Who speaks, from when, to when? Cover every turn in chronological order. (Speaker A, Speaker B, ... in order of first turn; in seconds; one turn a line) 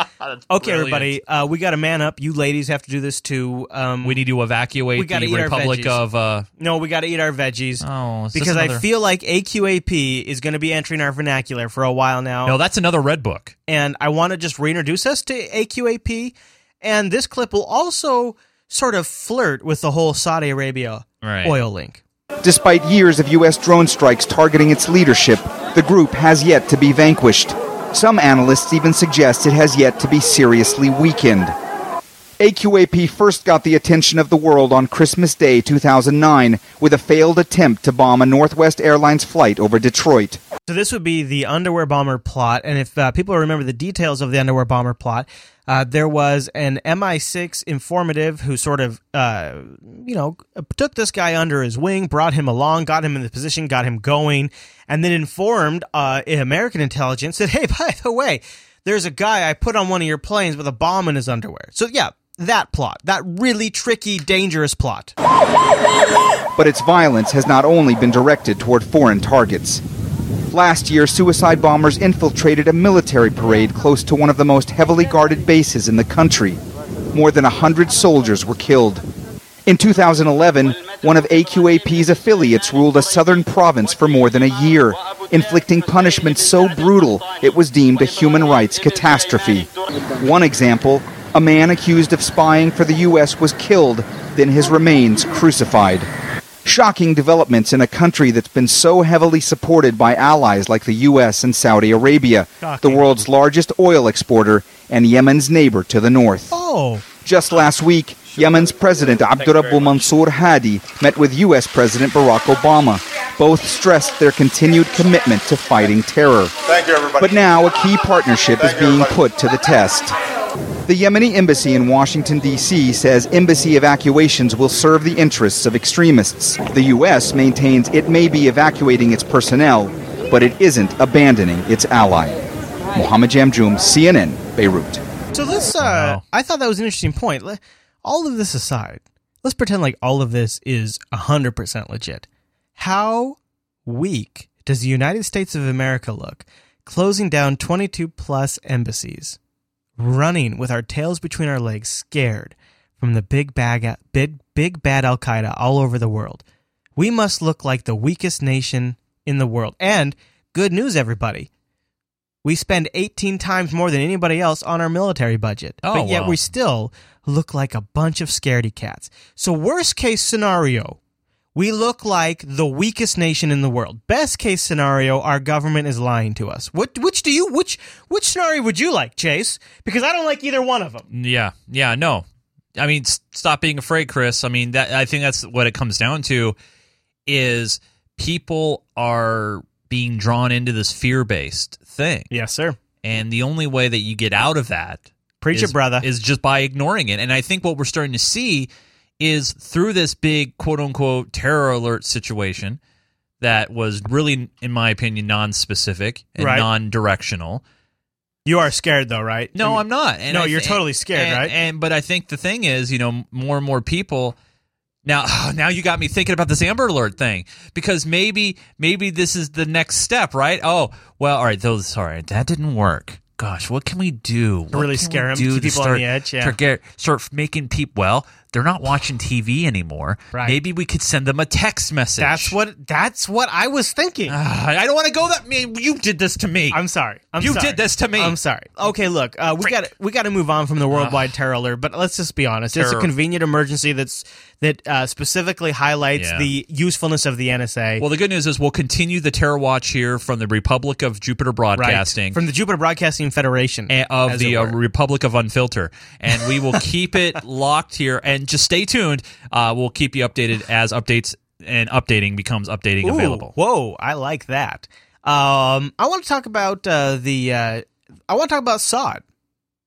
Speaker A: 0.5-4.2
Speaker B: 0.6-1.1
Speaker B: 4.0-6.5
Speaker A: 5.0-6.0
Speaker A: 6.6-12.6
Speaker B: 7.8-8.8
Speaker B: 12.4-13.5
Speaker A: 13.7-22.0
Speaker B: 21.2-21.6
Speaker C: 22.4-31.5
Speaker C: 32.4-40.4
Speaker A: 40.7-65.1
Speaker C: 66.6-69.8
Speaker C: 70.5-76.6
Speaker C: 77.1-79.0
Speaker C: 79.7-96.1
Speaker C: 96.7-106.5
Speaker A: 102.6-103.1
Speaker A: 106.5-107.0
Speaker C: 107.2-116.5
Speaker C: 117.2-120.2
Speaker C: 120.9-132.4
Speaker C: 132.9-135.0
Speaker A: 135.3-142.3
Speaker B: 135.8-136.2
Speaker A: 142.8-149.4
Speaker A: 150.0-156.4
Speaker A: 157.0-161.5
Speaker A: 162.4-171.0
Speaker B: 165.8-166.4
Speaker A: 171.6-181.1
Speaker B: 181.1-182.2
Speaker B: 182.8-186.6
Speaker B: 187.3-192.3
Speaker A: 192.3-192.8
Speaker B: 193.0-198.7
Speaker A: 195.4-196.1
Speaker B: 199.2-202.8
Speaker B: 203.4-207.6
Speaker A: 206.4-206.7
Speaker A: 208.5-211.5
Speaker B: 209.6-214.4
Speaker B: 215.1-232.6
Speaker A: 224.7-226.6
Speaker A: 232.2-234.4
Speaker B: 234.3-236.8
Speaker A: 236.7-248.1
Speaker B: 237.4-238.4
Speaker B: 240.9-241.3
Speaker B: 242.8-243.1
Speaker B: 246.2-246.5
Speaker B: 248.0-252.4
Speaker A: 251.8-254.8
Speaker B: 253.9-263.5
Speaker A: 263.0-269.2